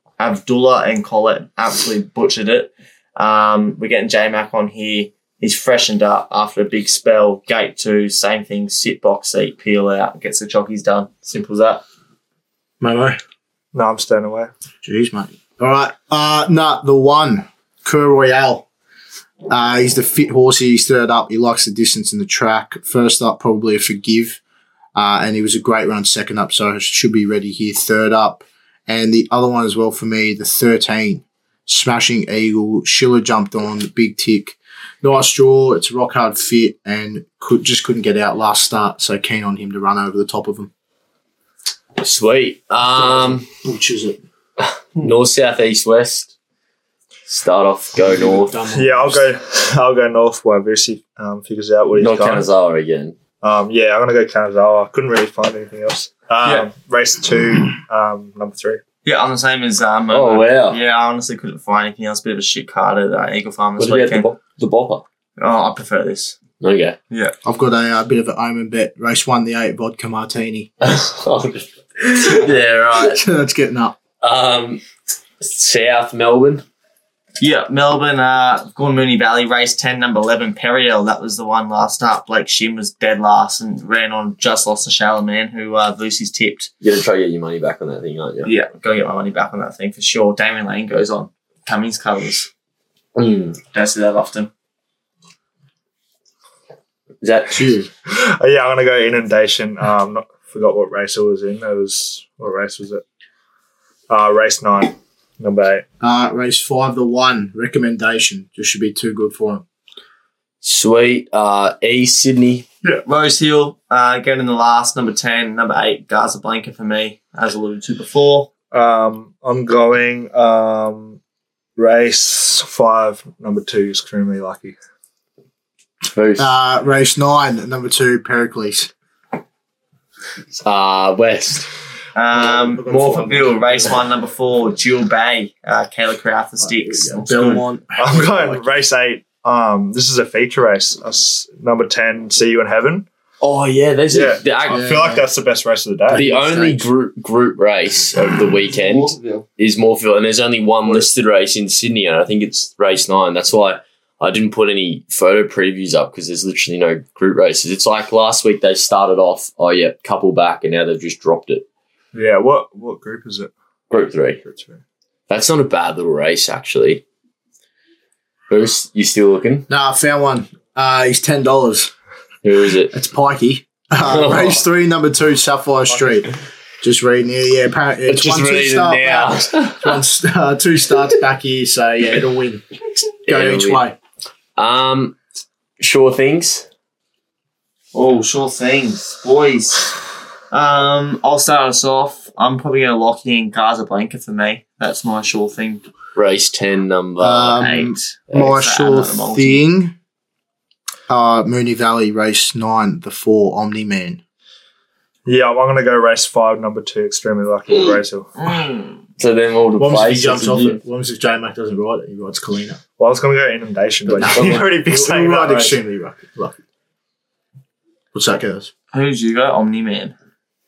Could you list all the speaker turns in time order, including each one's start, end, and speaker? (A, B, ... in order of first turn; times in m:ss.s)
0:00.2-0:11.8 A
0:12.8-0:13.2 B
0:13.7-0:14.5 C
0:14.8-0:18.6 B
0:19.5-0:24.4 B
0:25.0-0:40.7 B
0:42.0-0:43.5 D
0:42.9-0:44.2 B
0:44.6-0:46.3 D
0:47.3-0:48.6 D
0:48.0-0:49.3 B
0:48.7-0:52.4 C
0:52.0-0:53.1 D
0:53.4-0:58.8 C
0:59.0-1:04.3 A
1:00.1-1:00.8 D
1:03.8-1:05.0 D
1:05.4-1:06.4 A
1:06.6-1:07.0 D
1:07.1-1:07.3 A
1:07.4-1:10.7 B
1:10.8-1:13.2 D
1:12.9-1:13.9 B
1:14.2-1:14.8 D
1:15.4-1:16.6 D
1:17.4-1:26.7 A
1:26.8-1:28.5 D
1:28.4-1:32.5 A
1:33.2-1:33.6 D
1:33.7-1:34.5 A
1:37.2-1:37.7 D
1:37.5-1:37.9 B
1:38.1-1:43.0 C
1:44.1-1:45.8 C
1:46.0-1:49.6 B
1:50.6-1:52.6 D
1:52.8-1:58.5 A
1:58.7-2:01.2 C
2:01.8-2:04.7 C
2:06.0-2:06.6 D
2:06.4-2:08.9 B
2:10.5-2:11.7 D
2:12.1-2:17.6 A
2:12.3-2:14.0 B
2:16.6-2:18.7 B
2:18.0-2:23.0 C
2:23.4-2:24.8 D
2:24.1-2:26.2 C
2:24.7-2:25.3 B
2:26.1-2:26.9 B
2:26.1-2:41.6 D
2:28.9-2:29.4 A
2:42.1-2:43.5 C
2:43.9-2:44.4 D
2:44.4-2:44.8 C
2:45.3-2:47.0 D
2:48.5-2:49.7 D
2:49.7-2:51.9 B
2:52.4-2:52.9 D
2:52.9-3:02.7 B
2:54.0-2:54.6 D
2:58.1-3:00.0 D
3:03.2-3:04.0 B
3:03.3-3:03.8 D
3:04.6-3:05.1 D
3:05.8-3:06.7 D
3:07.9-3:10.0 A
3:10.5-3:15.9 A
3:16.2-3:17.7 D
3:17.2-3:19.9 B
3:17.5-3:19.6 A
3:21.1-3:24.2 B
3:25.2-3:28.6 C
3:28.4-3:29.0 A
3:29.2-3:30.8 D
3:29.8-3:32.8 B
3:33.0-3:35.8 C
3:34.0-3:36.6 B
3:34.3-3:34.7 D
3:38.1-3:38.7 B
3:38.9-3:40.1 A